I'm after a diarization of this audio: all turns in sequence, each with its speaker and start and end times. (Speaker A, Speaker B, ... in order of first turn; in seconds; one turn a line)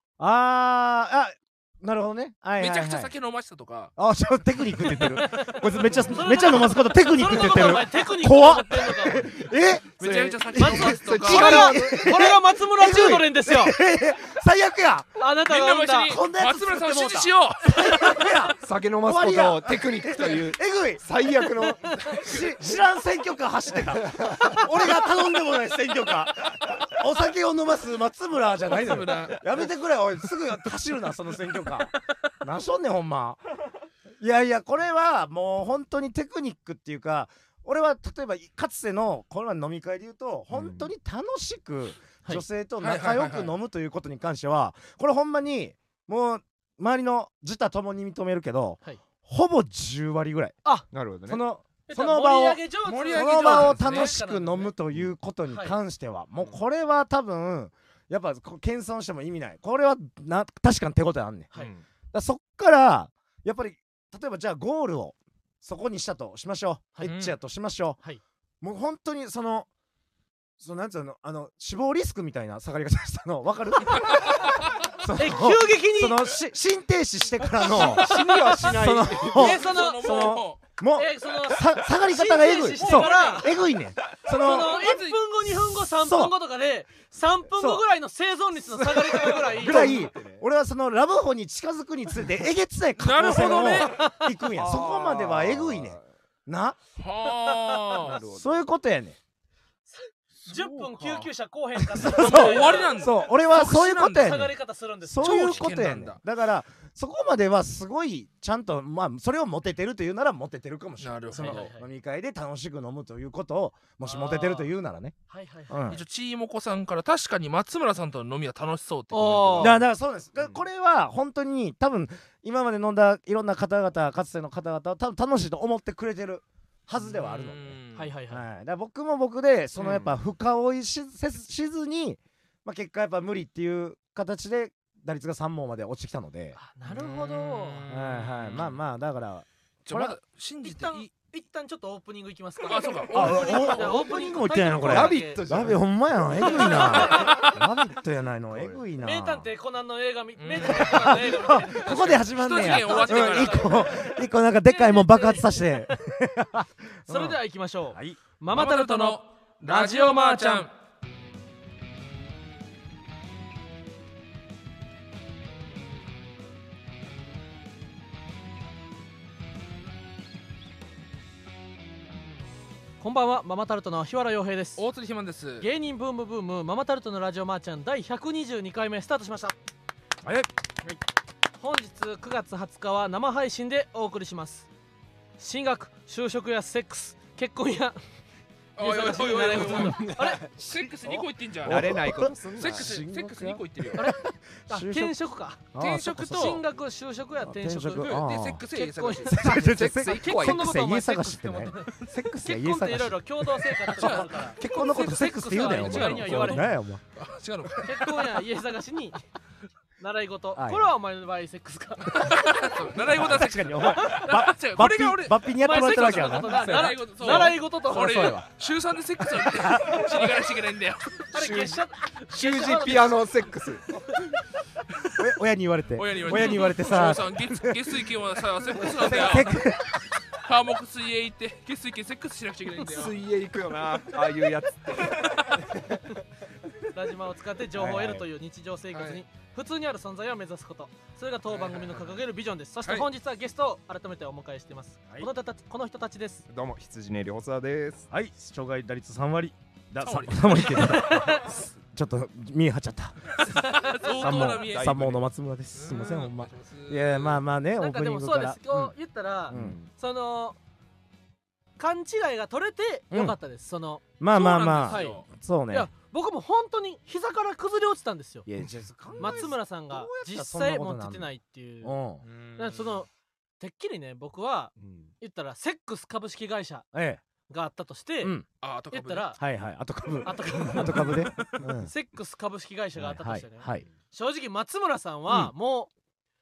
Speaker A: 0.2-3.1
Speaker B: 2.6-3.9
Speaker A: 4.0-15.2
Speaker C: 4.9-9.3
Speaker B: 10.0-11.7
Speaker C: 10.6-13.8
Speaker D: 10.8-11.8
Speaker C: 15.2-16.2
Speaker B: 15.4-18.2
Speaker A: 16.0-21.0
Speaker D: 18.6-22.7
Speaker A: 22.1-33.4
Speaker D: 24.0-24.6
Speaker B: 28.6-29.4
Speaker A: 34.2-50.5
Speaker D: 40.5-40.9
Speaker B: 42.8-43.5
Speaker D: 50.9-51.4
Speaker A: 51.3-61.5
Speaker C: 51.9-54.7
Speaker B: 52.9-54.1
Speaker C: 55.5-55.8
Speaker D: 61.5-61.8
Speaker A: 62.1-68.0
Speaker B: 67.0-67.3
Speaker A: 68.6-69.7
Speaker A: 70.6-84.8
Speaker B: 74.0-74.7
Speaker C: 75.1-76.3
Speaker C: 77.7-78.6
Speaker D: 77.7-79.6
Speaker B: 77.8-80.6
Speaker C: 79.3-80.4
Speaker C: 80.9-83.5
Speaker B: 82.8-83.4
Speaker C: 84.3-90.0
Speaker B: 84.4-85.2
Speaker A: 85.4-86.3
Speaker A: 87.5-87.8
Speaker A: 88.7-96.8
Speaker D: 89.4-90.4
Speaker B: 93.0-94.0
Speaker C: 93.6-94.2
Speaker D: 94.5-96.1
Speaker B: 97.0-98.2
Speaker D: 98.0-98.6
Speaker A: 98.3-99.2
Speaker C: 99.9-103.0
Speaker B: 100.4-101.3
Speaker A: 101.9-115.1
Speaker B: 102.0-104.5
Speaker C: 104.2-105.5
Speaker B: 105.2-106.2
Speaker B: 111.0-111.7
Speaker C: 111.3-111.8
Speaker C: 114.0-114.7
Speaker C: 115.3-115.8
Speaker A: 115.7-116.0
Speaker B: 115.9-119.8
Speaker C: 119.1-119.8
Speaker A: 119.6-127.8
Speaker B: 127.0-128.1
Speaker C: 127.9-128.4
Speaker A: 128.3-136.6
Speaker D: 129.8-130.1
Speaker C: 136.6-137.8
Speaker B: 136.9-138.8
Speaker A: 137.9-140.2
Speaker B: 139.8-141.1
Speaker C: 140.6-145.4
Speaker B: 142.6-144.0
Speaker A: 143.1-149.5
Speaker D: 144.7-145.8
Speaker C: 146.3-147.4
Speaker B: 146.7-147.6
Speaker D: 148.5-148.8
Speaker C: 149.0-155.8
Speaker B: 150.4-151.2
Speaker A: 150.6-157.4
Speaker B: 151.8-153.9
Speaker C: 157.1-160.7
Speaker A: 157.9-158.2
Speaker B: 158.5-160.7
Speaker C: 173.0-174.8
Speaker B: 174.8-175.7
Speaker C: 175.6-179.6
Speaker C: 181.6-184.7
Speaker C: 185.4-188.0
Speaker B: 188.8-194.1
Speaker C: 188.8-190.4
Speaker D: 189.7-190.4
Speaker A: 190.6-195.1
Speaker D: 191.6-192.9
Speaker C: 193.9-195.7
Speaker A: 195.7-196.6
Speaker B: 195.8-196.6
Speaker C: 196.3-206.7
Speaker A: 197.4-198.6
Speaker B: 197.9-199.4
Speaker A: 199.2-207.0
Speaker D: 199.5-200.8
Speaker B: 203.9-208.2
Speaker C: 207.8-209.2
Speaker C: 210.0-212.4
Speaker A: 210.5-210.9
Speaker B: 212.1-221.7
Speaker A: 212.9-218.4
Speaker C: 215.6-218.4
Speaker A: 219.4-220.4
Speaker C: 221.3-223.3
Speaker D: 221.3-221.8
Speaker D: 222.3-223.9
Speaker A: 225.1-228.1
Speaker B: 225.9-229.6
Speaker C: 226.3-226.7
Speaker A: 228.7-230.0
Speaker B: 230.3-233.2
Speaker D: 232.8-236.0
Speaker C: 236.9-246.4
Speaker A: 237.7-238.2
Speaker B: 238.9-239.2
Speaker B: 241.5-242.2
Speaker D: 246.5-248.1
Speaker A: 248.1-258.9
Speaker B: 250.0-251.2
Speaker C: 250.8-251.5
Speaker B: 253.4-255.0
Speaker C: 253.6-254.5
Speaker D: 254.6-255.2
Speaker B: 255.7-257.4
Speaker C: 257.8-260.6
Speaker A: 259.5-259.8
Speaker D: 259.5-259.9
Speaker C: 261.8-264.0
Speaker A: 263.1-263.4
Speaker A: 264.2-265.9
Speaker B: 264.3-265.2
Speaker C: 264.9-268.5
Speaker A: 268.4-271.3
Speaker C: 269.2-272.0
Speaker A: 271.8-272.2
Speaker B: 272.2-273.0
Speaker C: 272.6-273.1
Speaker C: 273.6-276.8
Speaker D: 274.8-275.1
Speaker A: 276.9-277.2
Speaker C: 277.5-278.3
Speaker A: 278.2-278.4
Speaker B: 278.6-279.3
Speaker C: 278.9-279.4
Speaker A: 279.4-281.9
Speaker C: 280.2-281.2
Speaker C: 281.8-285.9
Speaker A: 283.0-283.9